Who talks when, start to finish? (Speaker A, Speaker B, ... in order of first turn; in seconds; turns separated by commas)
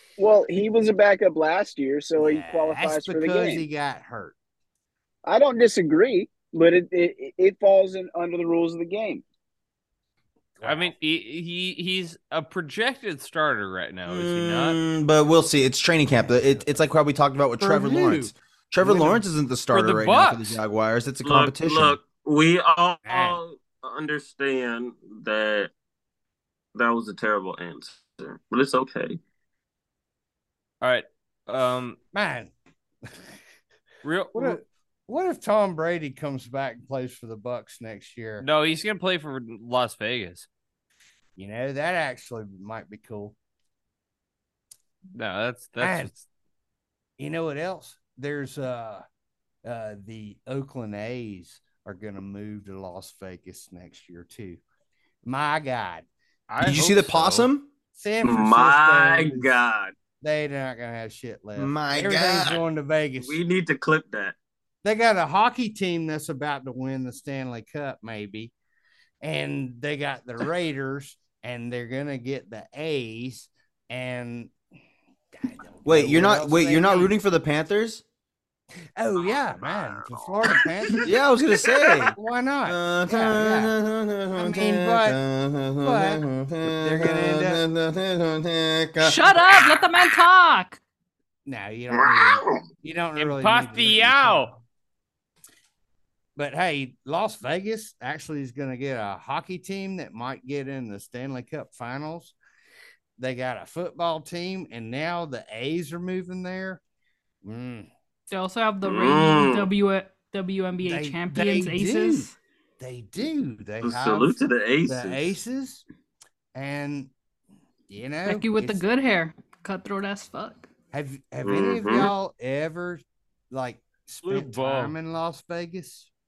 Speaker A: 0.2-3.7, Speaker B: 2.2-4.4, Speaker A: 5.2-9.2, Speaker B: 10.6-10.9, Speaker C: 10.6-14.8, Speaker D: 14.1-22.0, Speaker B: 16.1-16.8, Speaker B: 17.6-19.2, Speaker C: 19.7-20.6, Speaker E: 21.2-25.7, Speaker B: 23.1-23.4, Speaker E: 26.8-29.2, Speaker C: 30.8-32.0, Speaker B: 32.1-32.5, Speaker C: 34.0-34.6, Speaker B: 34.4-38.5, Speaker C: 38.4-40.5, Speaker B: 41.4-43.4, Speaker C: 45.1-46.3, Speaker B: 45.8-46.1, Speaker B: 47.2-49.0, Speaker B: 49.6-54.6, Speaker B: 55.2-56.1, Speaker C: 56.5-57.5, Speaker D: 56.6-57.7, Speaker B: 58.0-59.7, Speaker E: 58.2-59.9, Speaker B: 60.2-63.4, Speaker D: 61.6-62.6, Speaker E: 63.2-64.4, Speaker B: 64.8-68.5, Speaker B: 69.2-74.5, Speaker B: 75.3-77.1, Speaker D: 75.8-78.0, Speaker B: 79.0-81.2, Speaker E: 79.2-81.1, Speaker D: 81.0-89.8, Speaker E: 81.7-82.1, Speaker B: 82.1-83.7, Speaker B: 84.3-85.2, Speaker B: 85.8-87.6, Speaker F: 89.0-90.8, Speaker B: 91.5-94.6, Speaker E: 91.9-92.6, Speaker C: 93.2-94.6, Speaker B: 96.4-102.3, Speaker B: 103.2-106.8, Speaker B: 107.4-107.9, Speaker F: 108.3-112.3, Speaker E: 108.8-109.7, Speaker B: 110.8-115.8, Speaker E: 113.8-115.4, Speaker B: 116.5-117.1, Speaker B: 117.9-118.8, Speaker F: 118.3-120.7, Speaker B: 120.9-126.1, Speaker E: 121.4-122.1, Speaker C: 124.2-125.0